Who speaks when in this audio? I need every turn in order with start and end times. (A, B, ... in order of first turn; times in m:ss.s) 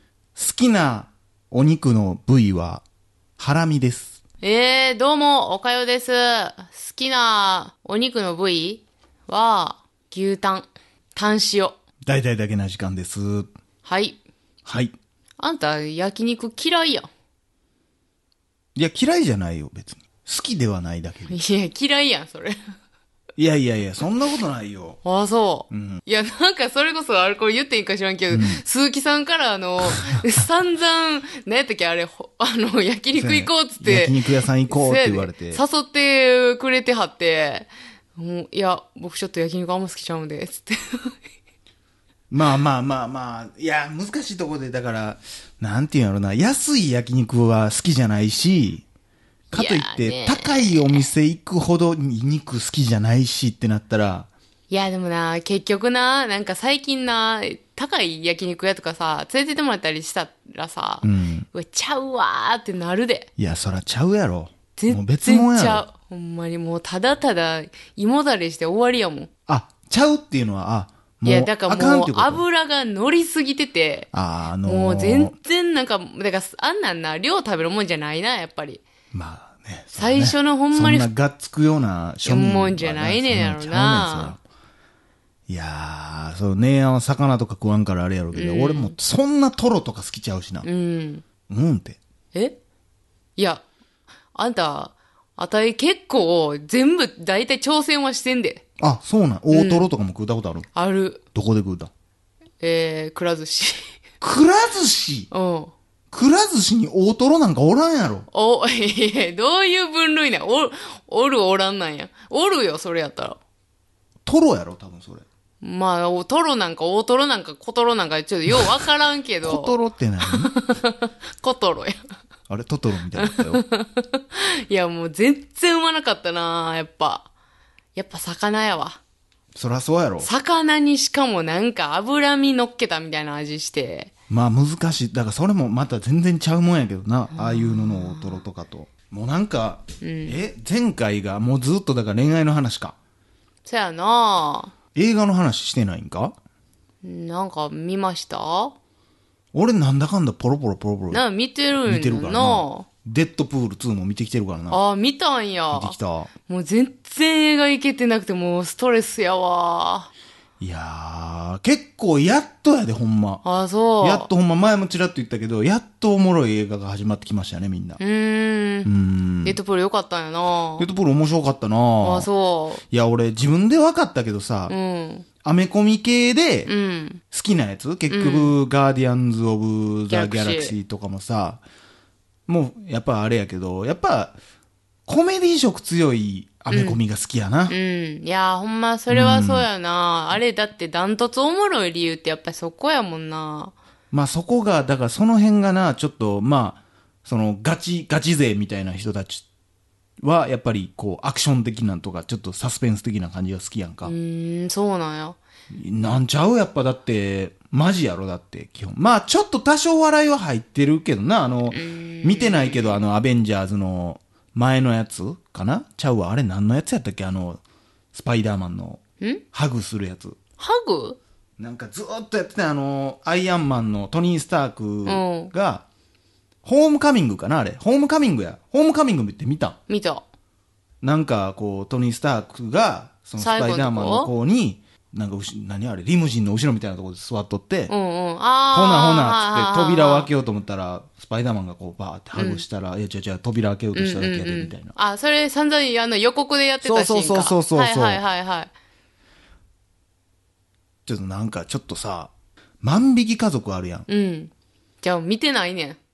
0:00.4-0:02.8 A
0:03.4-0:04.2 A
0:04.4-0:11.8 B
0:12.1-0:13.5 A
0:13.8-0:14.2 B
0:14.7-0:14.9 A
0:15.4-0:17.1 B
0:18.8-0:21.4 A
0:21.3-0:22.6 B
0:23.4-0:25.0 A
0:25.0-0:41.2 B
0:25.7-0:26.0 A
0:28.3-0:28.6 A
0:33.2-0:35.6 A
0:42.3-0:48.8 A
0:49.5-0:54.3 A
0:49.5-0:51.1 B
0:54.7-1:03.3 B
1:01.0-1:01.5 A
1:03.4-1:05.8 A
1:04.8-1:09.3 B
1:09.5-1:12.4 A
1:11.2-1:14.1 B
1:14.1-1:15.3 A
1:14.6-1:18.8 B
1:19.1-1:24.4 A
1:20.0-1:21.1 B
1:22.2-1:24.4 B
1:25.5-1:30.7 A
1:28.3-1:29.0 B
1:30.6-1:31.2 B
1:31.5-1:32.0 A
1:33.4-1:33.6 B
1:34.3-1:38.6 B
1:38.8-1:40.7 A
1:39.5-1:39.9 B
1:40.8-1:41.2 B
1:41.3-1:41.9 A
1:42.6-1:43.9 B
1:44.2-1:45.3 A
1:45.3-1:45.7 B
1:46.1-1:48.3 A
1:48.3-1:53.4 B
1:54.2-1:55.2 A
1:55.6-2:02.0 B
1:59.4-2:00.5 A
2:02.5-2:03.6 A
2:03.2-2:07.3 B
2:08.0-2:09.0 B
2:09.6-2:10.3 A
2:10.2-2:14.1 B
2:14.3-2:23.0 A
2:17.3-2:18.4 B
2:20.0-2:20.4 B
2:23.7-2:24.7 B
2:25.0-2:26.4 A
2:27.0-2:28.8 B
2:29.5-2:31.2 A
2:31.1-2:32.9 B
2:31.8-2:34.8 A
2:34.7-2:40.1 B
2:35.7-2:36.3 A
2:40.6-2:43.4 A
2:43.4-2:44.3 B
2:44.0-2:48.0 A
2:48.0-2:48.9 B
2:48.8-2:49.6 A
2:49.4-2:50.9 B
2:50.8-2:52.3 A
2:52.0-2:52.8 B
2:52.9-2:54.8 A
2:54.7-2:55.3 B
2:55.4-2:56.7 A
2:56.7-2:57.2 B
2:57.3-3:01.6 A
2:58.1-2:58.6 B
3:00.1-3:00.8 B
3:02.5-3:04.4 A
3:05.1-3:07.8 A
3:06.7-3:07.0 B
3:07.7-3:13.7 B
3:09.1-3:09.7 A
3:14.1-3:19.5 A
3:20.2-3:24.1 A
3:24.0-3:25.4 B
3:25.7-3:37.6 A
3:31.7-3:33.0 B
3:38.1-3:39.0 A
3:39.5-3:40.4 A
3:40.6-3:41.2 B
3:41.6-3:45.9 A
3:45.1-3:45.5 B
3:46.6-3:49.8 A
3:49.9-3:50.2 B
3:51.0-3:57.9 A
3:53.4-3:54.3 B
3:57.9-4:00.3 B
3:58.7-4:05.0 A
4:02.4-4:02.6 B
4:04.0-4:08.7 B
4:06.8-4:08.2 A
4:11.1-4:14.1 A
4:14.1-4:14.5 B
4:15.0-4:16.0 B